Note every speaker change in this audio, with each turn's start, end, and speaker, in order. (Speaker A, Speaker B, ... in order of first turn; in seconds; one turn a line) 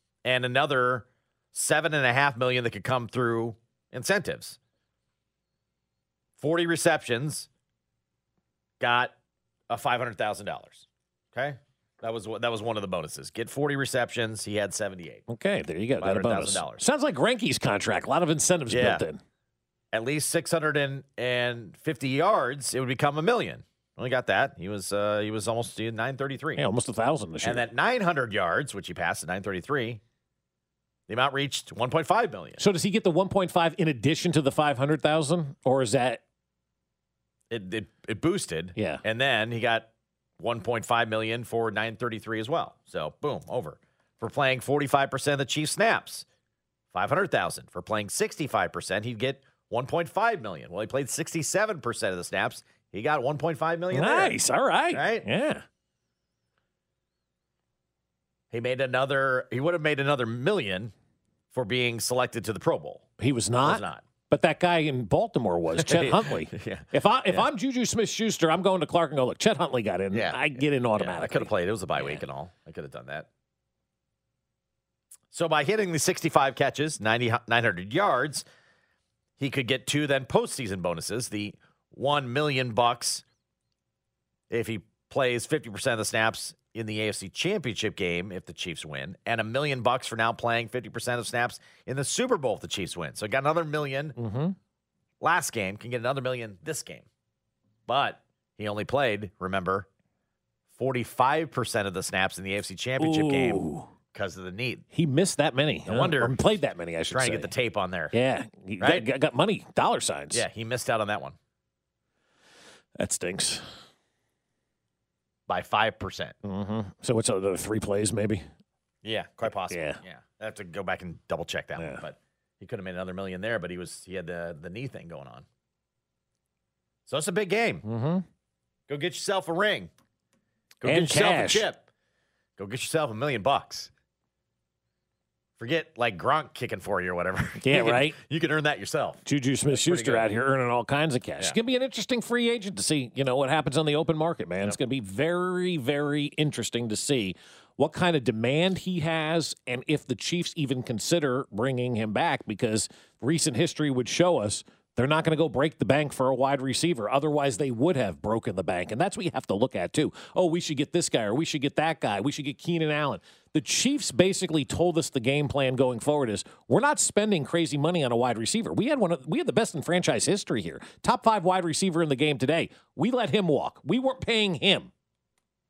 Speaker A: 0.2-4.6
Speaker A: 6.4-7.5
Speaker A: 8.8-9.1
Speaker A: 9.7-15.2
Speaker B: 15.3-19.2
Speaker A: 16.0-16.8
Speaker A: 18.7-19.0
Speaker A: 19.9-26.6
Speaker B: 26.6-27.7
Speaker A: 27.4-30.0
Speaker A: 31.1-32.6
Speaker B: 32.6-36.2
Speaker A: 37.5-46.2
Speaker B: 38.8-39.0
Speaker A: 46.9-54.3
Speaker B: 53.9-55.6
Speaker A: 54.9-55.2
Speaker A: 58.5-60.9
Speaker A: 61.5-63.1
Speaker B: 63.2-72.2
Speaker A: 63.6-64.0
Speaker A: 65.8-67.5
Speaker A: 70.1-73.3
Speaker A: 75.3-78.5
Speaker A: 79.4-83.2
Speaker A: 84.5-94.2
Speaker B: 94.2-94.5
Speaker A: 95.2-97.0
Speaker A: 97.9-99.9
Speaker A: 100.8-104.8
Speaker B: 103.0-103.9
Speaker B: 104.9-107.5
Speaker A: 105.8-106.4
Speaker A: 107.1-108.1
Speaker B: 108.1-110.4
Speaker A: 108.8-109.0
Speaker A: 110.3-111.3
Speaker B: 113.0-113.6
Speaker A: 115.5-116.3
Speaker B: 116.4-118.5
Speaker A: 119.0-125.5
Speaker B: 119.7-120.0
Speaker B: 121.8-122.0
Speaker A: 127.0-127.8
Speaker B: 127.8-128.2
Speaker A: 128.9-129.9
Speaker A: 130.8-131.8
Speaker B: 130.8-131.6
Speaker A: 132.6-133.9
Speaker A: 135.6-140.3
Speaker B: 137.6-138.2
Speaker B: 139.2-174.9